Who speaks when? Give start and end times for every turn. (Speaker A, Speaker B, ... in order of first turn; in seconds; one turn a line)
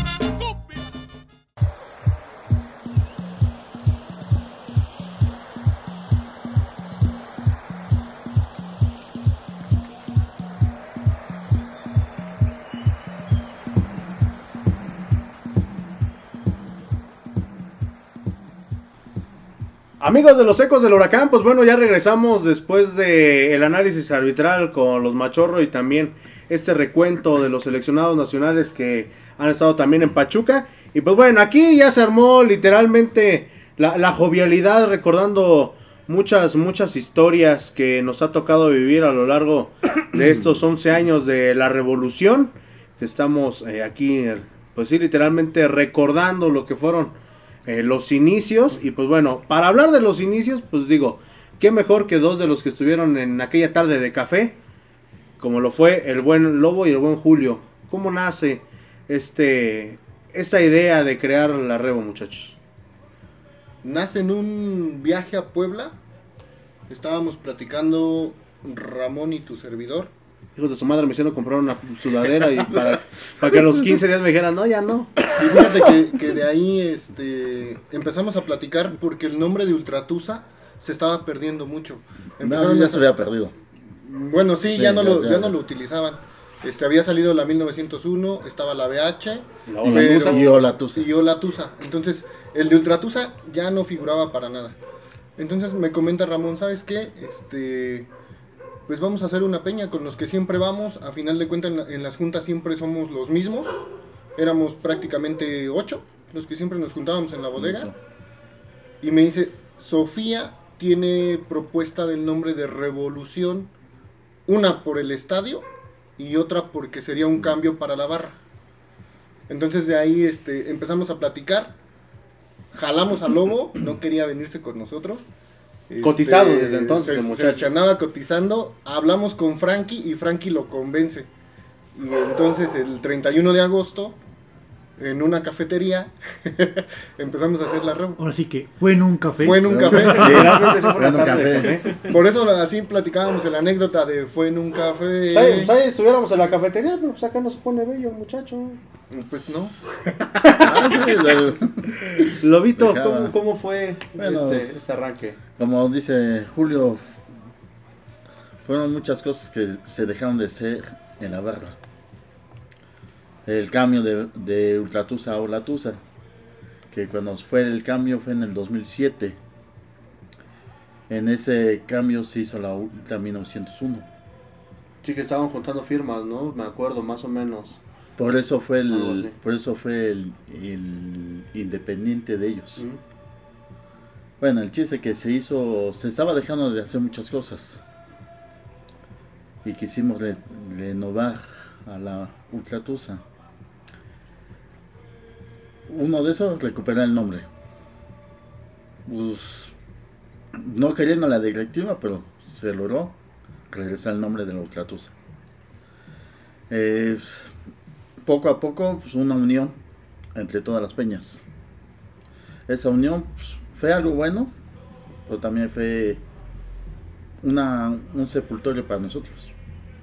Speaker A: 20.0-47.1
Speaker A: 47.6-54.6
Speaker A: 55.4-62.6
Speaker B: 63.8-66.0
Speaker B: 66.9-70.1
Speaker A: 70.5-75.2
Speaker B: 75.3-83.1
Speaker C: 82.4-83.5
Speaker B: 84.0-94.8
Speaker C: 84.7-85.6
Speaker A: 89.7-90.5
Speaker C: 89.8-91.1
Speaker B: 95.4-98.1
Speaker B: 98.9-103.8
Speaker B: 104.3-107.9
Speaker C: 107.5-108.0
Speaker B: 109.0-113.7
Speaker B: 114.5-115.7
Speaker B: 116.2-118.4
Speaker B: 119.5-121.7
Speaker B: 122.7-125.3
Speaker B: 125.9-131.3
Speaker A: 126.0-127.7
Speaker B: 131.9-134.2
Speaker B: 135.0-138.2
Speaker D: 138.2-140.5
Speaker B: 139.4-145.7
Speaker C: 139.4-141.8
Speaker A: 140.0-142.0
Speaker A: 145.3-148.8
Speaker B: 149.1-150.5
Speaker A: 150.4-150.8
Speaker C: 150.6-152.1
Speaker A: 152.4-155.4
Speaker C: 152.8-153.3
Speaker C: 154.2-154.7
Speaker C: 155.6-157.2
Speaker C: 158.6-161.8
Speaker C: 163.4-166.0
Speaker C: 166.9-169.4
Speaker C: 171.1-174.1
Speaker A: 175.0-177.8
Speaker C: 178.2-182.8
Speaker A: 178.9-179.3
Speaker C: 184.4-187.8
Speaker C: 189.6-193.2
Speaker C: 195.9-197.5
Speaker C: 199.1-199.7
Speaker C: 200.5-203.2
Speaker C: 203.7-205.1
Speaker C: 206.7-207.5
Speaker C: 208.2-209.8
Speaker C: 210.3-211.4
Speaker C: 212.7-214.5
Speaker C: 215.3-216.2
Speaker C: 217.4-219.5